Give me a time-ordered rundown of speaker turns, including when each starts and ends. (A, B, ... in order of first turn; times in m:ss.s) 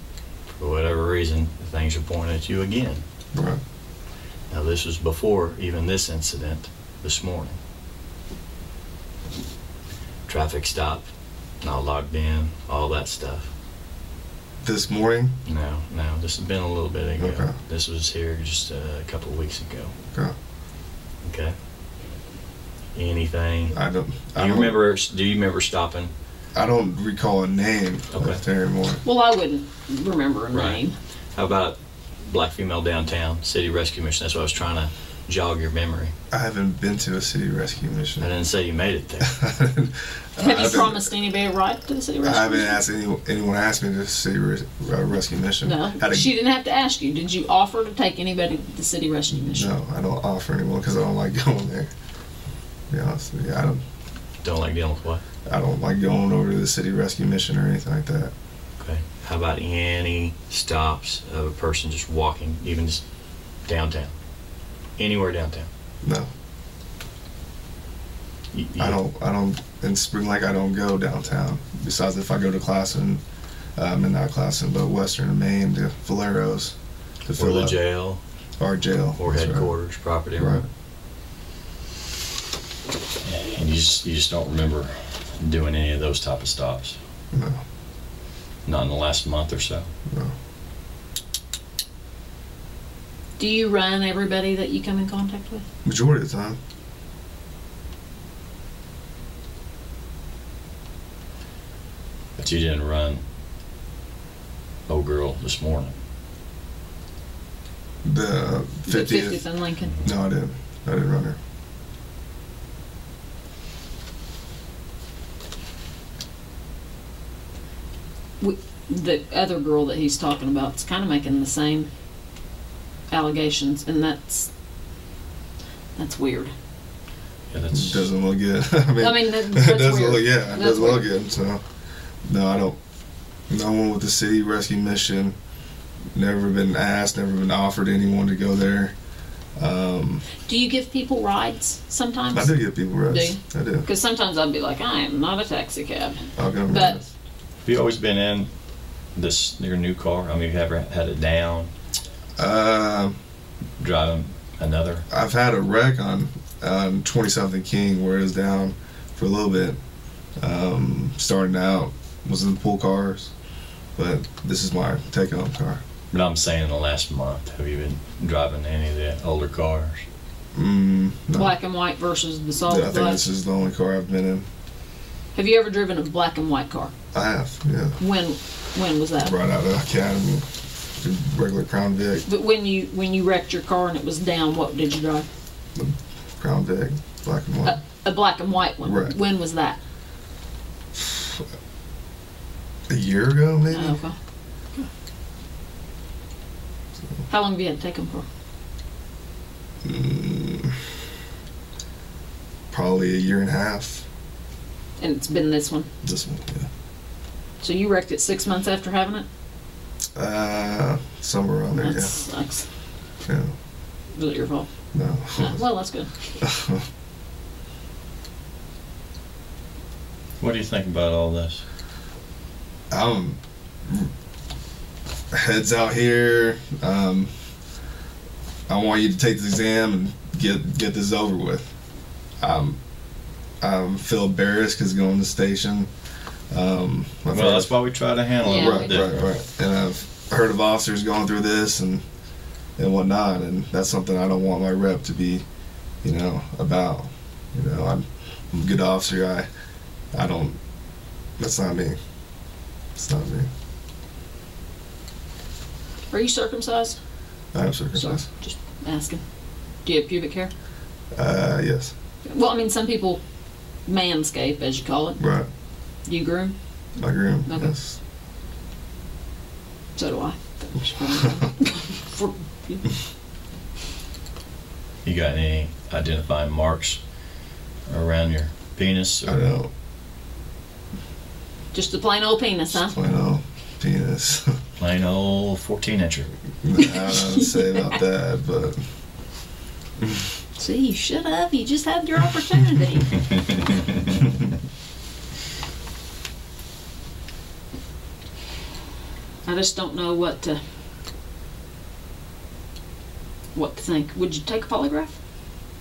0:00.5-0:03.0 A
0:03.3-0:03.6 B
0:04.5-0:07.6 A
0:10.3-0:11.1 A
0:11.6-0:13.5 A
0:14.6-0:15.4 B
0:15.4-0:19.9 A
0:17.2-0:17.5 B
0:21.2-0:21.6 A
0:22.9-0:23.8 A
0:23.7-0:24.8 B
0:24.4-0:26.1 A
0:26.5-0:29.0 B
0:28.1-0:28.4 A
0:29.0-0:30.9 C
0:30.5-0:30.8 A
0:31.3-0:36.1 A
0:36.3-0:38.3 B
0:38.2-0:39.4 A
0:39.3-0:41.1 B
0:40.4-0:42.8 C
0:42.2-0:46.3 B
0:45.6-0:49.7 C
0:49.5-0:51.9 B
0:52.9-0:53.8 B
0:54.4-0:55.2 A
0:55.4-0:58.3 B
0:58.8-1:03.0 A
1:03.6-1:04.1 A
1:05.0-1:05.7 A
1:06.0-1:06.3 B
1:08.5-1:09.0 A
1:08.8-1:13.2 B
1:13.8-1:16.8 B
1:17.3-1:17.8 B
1:17.3-1:18.2 A
1:18.6-1:19.7 B
1:19.2-1:20.6 A
1:20.4-1:20.6 B
1:23.2-1:27.0 A
1:27.3-1:27.6 B
1:28.6-1:29.9 A
1:30.1-1:30.3 B
1:33.4-1:35.6 C
1:35.8-1:36.6 B
1:42.4-1:43.2 A
1:44.9-1:45.9 A
1:48.0-1:49.4 B
1:48.9-1:49.9 C
1:50.0-1:51.4 B
1:58.4-2:01.9 C
2:03.1-2:04.5 C
2:06.0-2:06.5 C
2:07.5-2:08.1 A
2:07.7-2:11.6 B
2:09.0-2:11.0 C
2:12.2-2:12.8 B
2:13.5-2:15.4 B
2:16.1-2:18.9 B
2:19.6-2:20.2 B
2:20.4-2:22.6 C
2:22.3-2:23.8 B
2:23.1-2:27.0 C
2:26.4-2:27.1 B
2:27.6-2:28.5 A
2:29.2-2:31.7 A
2:32.4-2:33.2 B
2:33.8-2:35.0 A
2:35.1-2:39.8 B
2:40.4-2:43.3 B
2:44.0-2:45.8 B
2:46.1-2:50.0 A
2:50.5-2:51.5 B
2:51.3-2:53.2 C
2:52.6-2:54.5 B
2:55.3-2:56.9 C
2:57.1-2:58.0 B
2:58.0-2:59.3 C
2:59.2-3:00.4 B
3:01.0-3:02.2 B
3:02.3-3:05.2 C
3:05.7-3:07.8 B
3:07.6-3:09.8 C
3:08.8-3:09.1 B
3:10.9-3:11.4 B
3:12.9-3:14.0 B
3:13.7-3:14.1 C
3:17.3-3:18.2 C
3:19.8-3:20.8 B
3:22.7-3:24.0 B
3:25.0-3:25.9 C
3:26.0-3:26.7 B
3:27.6-3:29.2 C
3:30.2-3:32.1 B
3:31.8-3:32.7 C
3:33.2-3:33.5 B
3:34.1-3:34.7 C
3:34.9-3:35.6 B
3:35.4-3:36.1 C
3:36.4-3:36.8 B
3:40.4-3:41.6 A
3:42.9-3:44.1 B
3:45.3-3:47.3 B
3:48.7-3:51.7 B
3:52.4-3:52.8 B
3:53.6-3:55.9 B
3:56.5-3:57.7 B
3:57.3-3:59.3 A
3:58.4-3:59.0 C
3:58.4-4:02.0 B
4:02.8-4:05.4 B
4:06.0-4:09.5 B
4:10.1-4:10.6 B
4:11.4-4:12.0 B
4:13.0-4:13.5 B
4:16.1-4:17.0 C
4:17.5-4:18.2 B
4:17.9-4:19.2 C
4:19.8-4:20.5 C
4:21.1-4:21.9 B
4:22.3-4:23.2 C
4:23.8-4:25.2 C
4:25.2-4:25.5 B
4:26.0-4:26.6 C
4:27.0-4:28.0 B
4:27.5-4:27.7 C
4:30.0-4:32.9 C
4:35.0-4:37.0 A
4:37.9-4:39.4 A
4:39.2-4:39.7 B
4:41.7-4:43.0 C
4:42.7-4:44.6 B
4:44.8-4:46.3 A
4:46.6-4:48.8 B
4:46.8-4:47.9 C
4:50.6-4:53.1 C
4:53.4-4:53.7 A
4:59.4-5:00.6 C
5:03.5-5:05.2 C